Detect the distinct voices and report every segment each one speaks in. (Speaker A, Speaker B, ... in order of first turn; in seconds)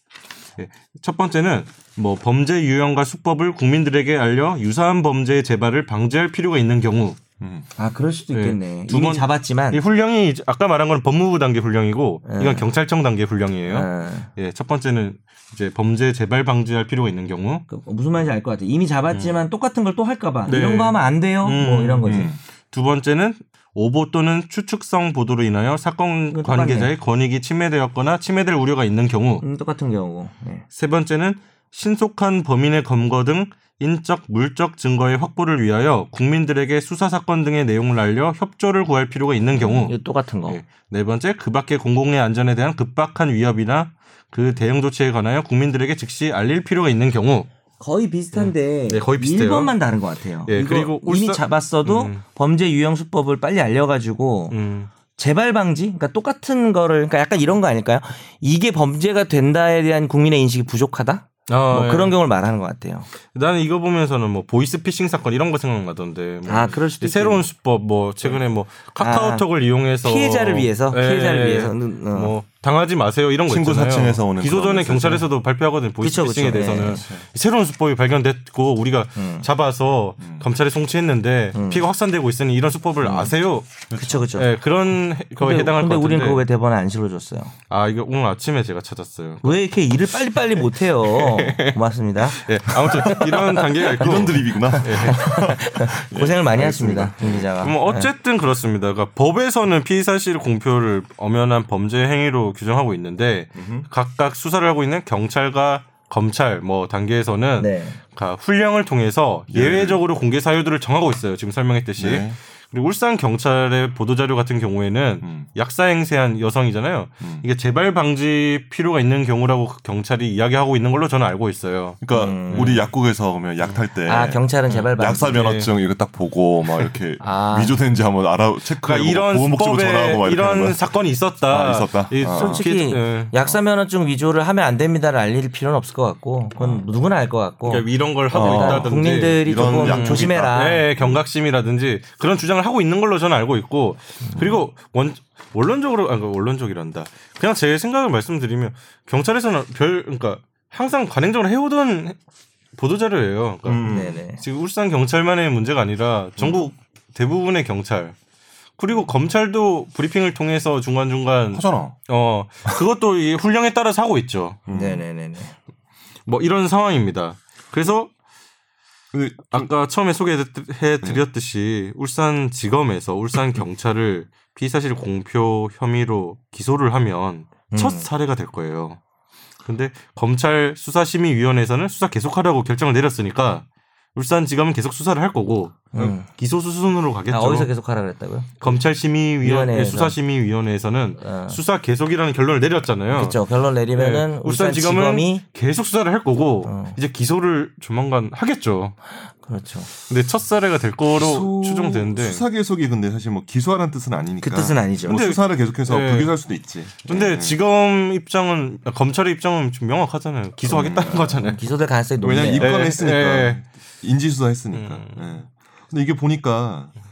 Speaker A: 0.6-7.2, 8.3-17.6, 20.5-29.4, 30.7-47.5, 48.3-49.7, 50.5-52.2, 54.5-54.9, 61.5-62.2, 63.3-86.4, 87.7-89.6, 91.0-95.4, 97.6-122.8, 124.7-125.7, 128.8-133.3, 137.7-152.2, 152.8-158.2, 158.8-164.6, 166.3-168.1, 169.5-179.0, 179.7-187.7, 188.6-193.4, 193.9-198.9, 200.1-202.4, 205.1-206.3, 207.1-211.6, 212.3-213.6, 214.7-215.3
Speaker B: 7.4-7.7, 22.1-22.4, 73.5-75.2, 77.0-77.3, 80.2-80.5, 83.9-84.3, 93.9-97.5, 103.6-103.9, 109.5-110.0, 112.0-112.4, 115.2-115.5, 122.0-124.4, 125.0-130.8, 131.5-132.7, 136.6-136.8, 138.3-141.2, 153.7-154.2, 156.4-156.7, 161.5-162.0, 164.7-165.0, 169.1-169.7, 201.2-207.6, 210.7-211.5, 212.2-216.9
Speaker C: 7.8-9.8, 12.3-12.7, 13.7-14.3, 17.7-22.3, 26.3-26.9, 29.4-30.6, 39.6-40.6, 47.8-54.6, 55.2-63.1, 66.5-67.5, 69.0-69.5, 70.0-72.3, 76.0-77.0, 79.2-79.5, 81.5-81.8, 83.0-83.3, 83.9-84.5, 85.4-87.5, 89.4-94.1, 94.7-98.1, 107.6-108.0, 122.1-122.8, 124.1-125.7, 127.2-127.8, 132.3-140.8, 153.9-154.4, 164.7-165.6, 177.7-178.1, 185.9-186.3, 187.3-188.8, 189.4-190.2, 191.2-191.6, 193.1-195.4, 196.7-197.0, 199.4-199.9, 204.4-205.2, 210.8-212.8